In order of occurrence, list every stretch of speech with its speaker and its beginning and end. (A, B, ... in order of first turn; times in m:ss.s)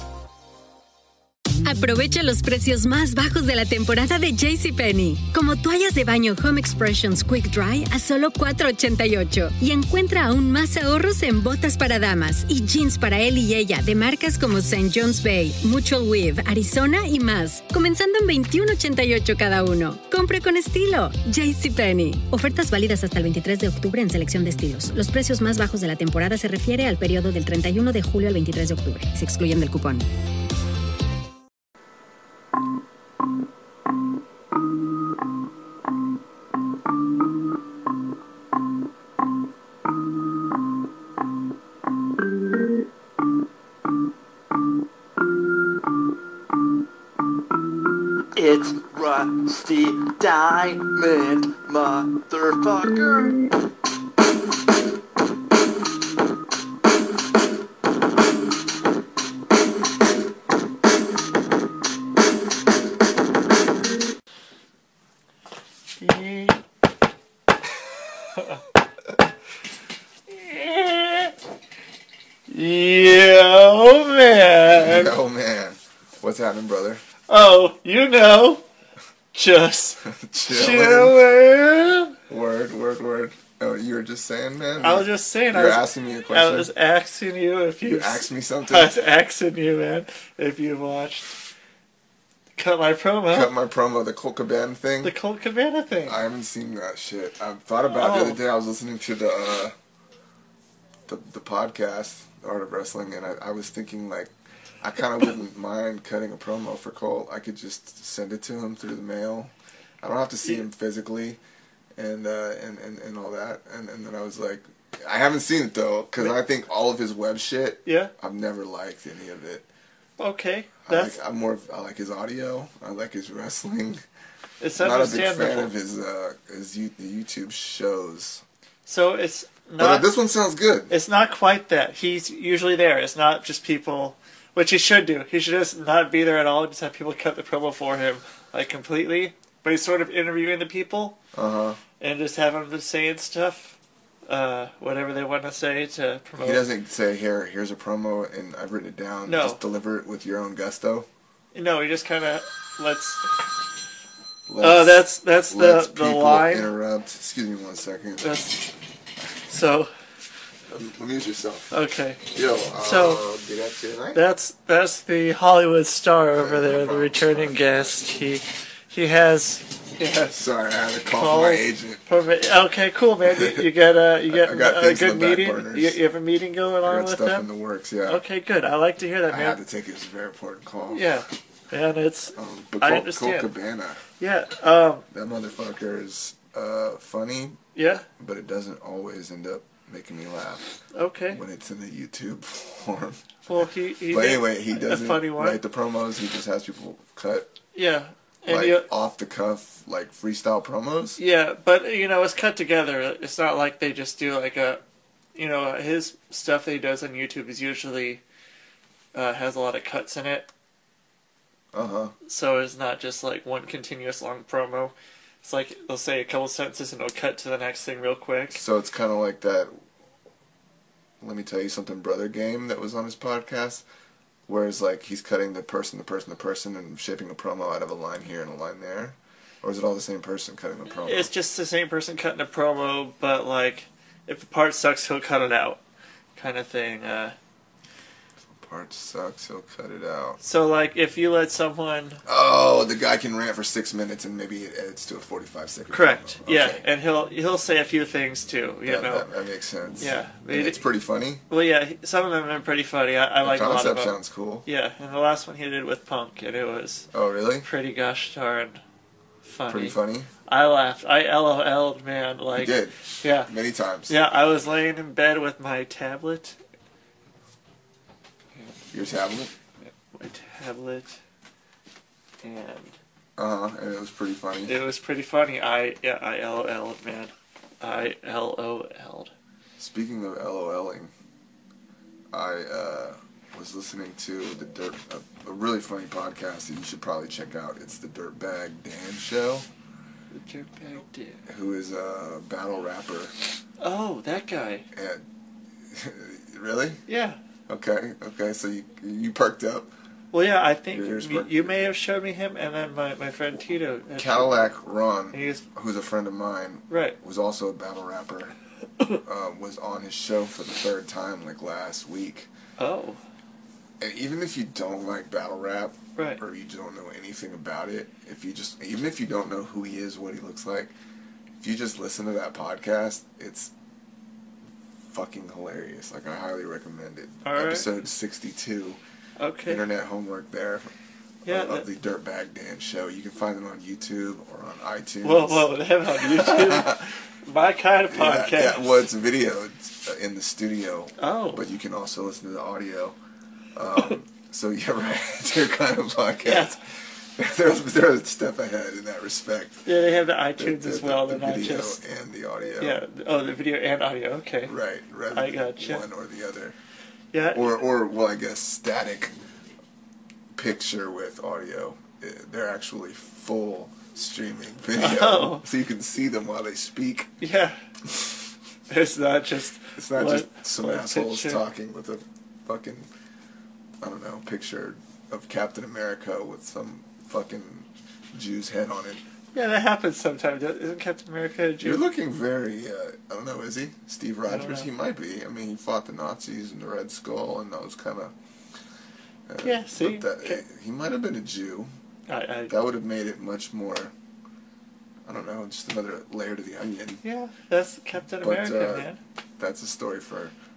0:01.6-0:30.1 A
0:48.3-0:53.4 B
1:06.0-1:06.6 B
1:10.3-1:11.3 B
1:12.5-1:15.2 B
1:14.8-1:17.0 C
1:17.3-1:18.6 B
1:19.3-1:22.2 B
1:20.0-1:21.2 C
1:22.3-1:26.7 C
1:24.8-1:31.3 B
1:27.8-1:28.9 C
1:32.6-1:33.5 B
1:33.3-1:35.2 C
1:35.0-1:36.2 B
1:36.0-1:39.7 C
1:37.9-1:38.4 B
1:41.1-1:51.4 C
1:52.0-1:59.7 C
1:57.8-1:58.1 B
2:00.2-2:01.2 B
2:00.8-2:04.0 C
2:04.6-2:05.7 B
2:04.8-2:08.4 C
2:08.9-2:10.0 B
2:09.8-2:10.9 C
2:10.9-2:21.2 B
2:21.3-2:21.8 C
2:22.0-2:26.7 B
2:26.4-2:31.1 C
2:29.2-2:29.6 B
2:31.5-2:33.3 B
2:34.5-2:38.4 C
2:34.6-2:36.7 B
2:38.2-2:38.6 B
2:39.4-2:39.9 B
2:40.7-2:44.2 C
2:41.7-2:42.2 B
2:42.8-2:43.2 B
2:44.1-2:50.4 B
2:46.4-2:47.9 C
2:50.3-2:52.0 C
2:51.1-2:57.5 B
2:53.2-2:53.7 C
2:54.2-2:56.0 C
2:56.8-2:58.2 C
2:58.0-2:59.6 B
2:59.3-3:01.1 C
3:00.9-3:03.5 B
3:02.4-3:04.0 C
3:04.2-3:05.0 B
3:05.1-3:07.6 C
3:07.7-3:08.1 B
3:08.2-3:10.7 C
3:10.9-3:11.4 B
3:11.3-3:13.2 C
3:13.5-3:15.6 B
3:14.1-3:17.5 C
3:17.7-3:18.9 B
3:18.5-3:21.2 C
3:21.2-3:24.8 B
3:25.3-3:28.2 B
3:29.1-3:30.5 B
3:31.7-3:32.1 C
3:32.2-3:38.6 B
3:38.5-3:39.8 C
3:41.2-3:43.8 C
3:44.5-3:51.3 C
3:50.9-3:55.8 B
3:56.4-3:57.4 B
3:58.4-4:00.4 C
4:00.4-4:02.2 B
4:02.2-4:06.8 C
4:05.9-4:09.2 B
4:08.8-4:11.4 C
4:10.0-4:10.8 B
4:11.5-4:17.1 B
4:13.4-4:14.6 C
4:17.1-4:17.7 C
4:17.6-4:18.8 B
4:19.4-4:23.5 B
4:19.7-4:20.3 C
4:22.5-4:24.1 C
4:24.1-4:26.6 B
4:28.9-4:29.5 C
4:29.8-4:31.2 B
4:32.4-4:33.0 B
4:33.4-4:34.8 C
4:34.6-4:39.3 B
4:39.8-4:41.1 C
4:42.3-4:49.6 C
4:50.3-4:51.4 B
4:51.5-4:53.3 C
4:53.8-4:54.9 B
4:54.9-4:55.2 C
4:55.9-4:57.0 C
4:57.1-4:57.4 B
4:57.7-4:59.9 C
5:00.3-5:04.7 B
5:00.9-5:01.8 C
5:04.2-5:08.6 C
5:05.3-5:05.6 B
5:06.9-5:07.2 B
5:09.2-5:12.5 C
5:12.8-5:13.2 B
5:14.0-5:20.9 C
5:16.2-5:16.4 B
5:21.6-5:23.7 C
5:25.1-5:29.0 C
5:27.4-5:27.9 B
5:29.4-5:29.8 B
5:29.6-5:30.9 C
5:31.4-5:31.8 B
5:31.4-5:37.1 C
5:35.2-5:39.0 B
5:38.1-5:43.2 C
5:41.2-5:41.6 B
5:43.7-5:49.9 C
5:46.4-5:46.8 B
5:49.8-5:52.0 B
5:50.6-5:53.0 C
5:52.8-5:54.7 B
5:54.7-5:56.8 C
5:55.3-5:56.0 B
5:57.3-5:57.8 B
5:57.5-5:59.3 C
6:00.5-6:07.3 C
6:05.0-6:05.6 B
6:07.4-6:07.8 B
6:08.9-6:11.6 B
6:10.0-6:13.1 C
6:14.0-6:19.2 C
6:19.5-6:22.0 B
6:21.8-6:28.3 C
6:24.5-6:24.9 B
6:29.5-6:31.9 C
6:29.6-6:30.6 B
6:32.3-6:32.8 B
6:32.7-6:34.1 C
6:35.2-6:37.2 C
6:37.2-6:39.2 B
6:38.4-6:39.1 C
6:39.6-6:40.5 C